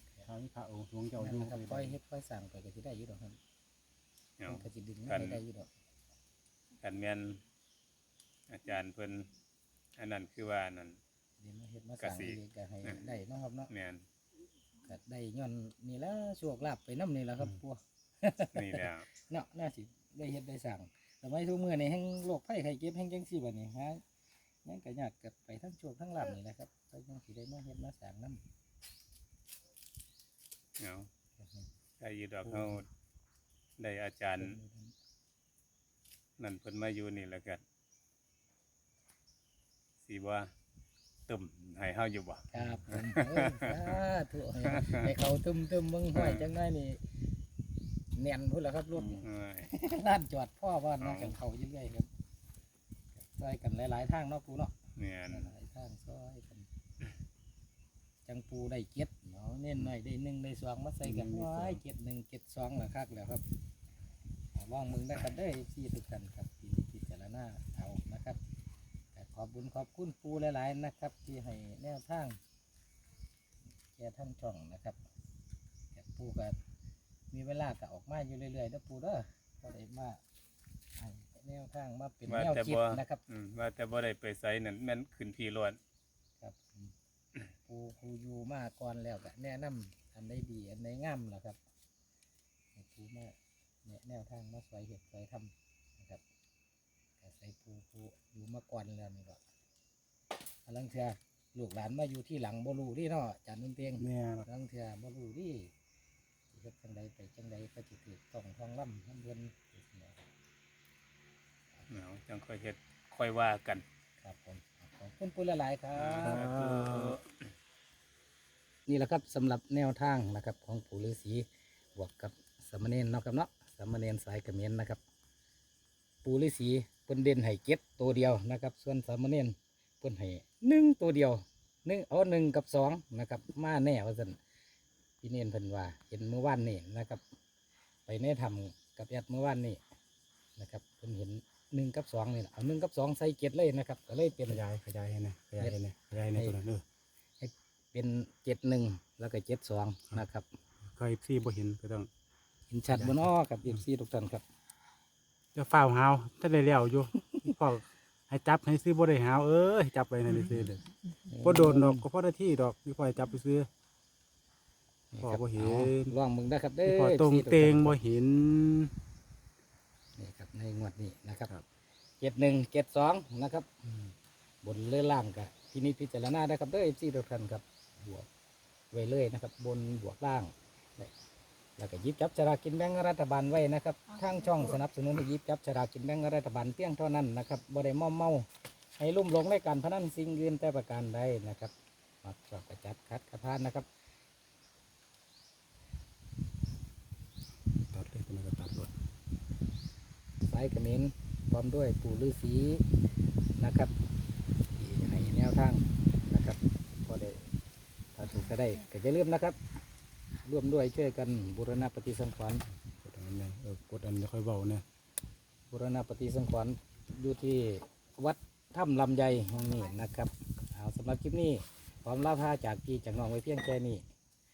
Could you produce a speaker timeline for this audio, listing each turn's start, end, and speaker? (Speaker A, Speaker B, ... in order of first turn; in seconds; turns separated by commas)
Speaker A: 0.2-1.9, Speaker B: 1.2-3.4, Speaker C: 4.4-5.4, Speaker B: 4.5-5.7, Speaker C: 6.8-7.4, Speaker C: 8.5-9.3, Speaker C: 10.0-11.0, Speaker B: 11.4-13.7, Speaker C: 12.0-13.0, Speaker C: 13.7-14.0, Speaker B: 14.8-24.0, Speaker C: 18.5-19.1, Speaker B: 24.6-28.4, Speaker C: 30.8-31.1, Speaker B: 31.4-31.7, Speaker C: 32.0-32.9, Speaker B: 32.5-32.8, Speaker C: 33.8-34.6, Speaker B: 34.4-34.9, Speaker C: 36.4-37.6, Speaker C: 40.0-40.5, Speaker C: 41.3-44.0, Speaker B: 42.5-47.0, Speaker C: 44.7-45.1, Speaker C: 46.1-46.5, Speaker B: 48.1-52.1, Speaker C: 48.9-49.7, Speaker C: 51.0-51.4, Speaker B: 53.2-54.7, Speaker C: 55.0-55.5, Speaker B: 55.3-56.7, Speaker B: 58.2-63.4, Speaker A: 61.0-61.8, Speaker B: 64.5-68.4, Speaker B: 69.1-72.4, Speaker B: 73.9-75.0, Speaker B: 75.9-76.6, Speaker B: 77.3-80.2, Speaker B: 81.0-83.2, Speaker C: 82.3-85.8, Speaker B: 86.4-86.9, Speaker B: 87.6-91.6, Speaker B: 92.8-96.2, Speaker B: 97.2-99.4, Speaker B: 100.7-105.7, Speaker A: 104.0-104.5, Speaker B: 106.5-110.3, Speaker C: 111.9-113.8, Speaker B: 114.2-116.5, Speaker C: 115.9-117.4, Speaker A: 116.2-117.2, Speaker B: 118.8-125.0, Speaker B: 126.2-134.4, Speaker B: 135.2-137.2, Speaker B: 138.1-139.8, Speaker B: 140.6-144.6, Speaker A: 144.4-146.8, Speaker B: 147.4-150.5, Speaker A: 150.9-152.1, Speaker B: 152.7-154.4, Speaker A: 152.9-153.3, Speaker A: 155.5-160.8, Speaker B: 160.6-162.1, Speaker A: 161.4-163.7, Speaker B: 165.1-168.0, Speaker A: 165.2-166.2, Speaker A: 166.8-168.9, Speaker B: 170.2-171.5, Speaker B: 172.2-173.9, Speaker B: 174.6-178.3, Speaker B: 178.9-181.1, Speaker B: 181.8-188.5, Speaker B: 189.0-193.8, Speaker A: 197.9-198.9, Speaker B: 200.4-202.9, Speaker B: 203.6-203.9, Speaker B: 204.7-207.4, Speaker B: 208.1-209.6, Speaker B: 210.4-212.6, Speaker A: 213.0-214.8, Speaker B: 215.7-224.0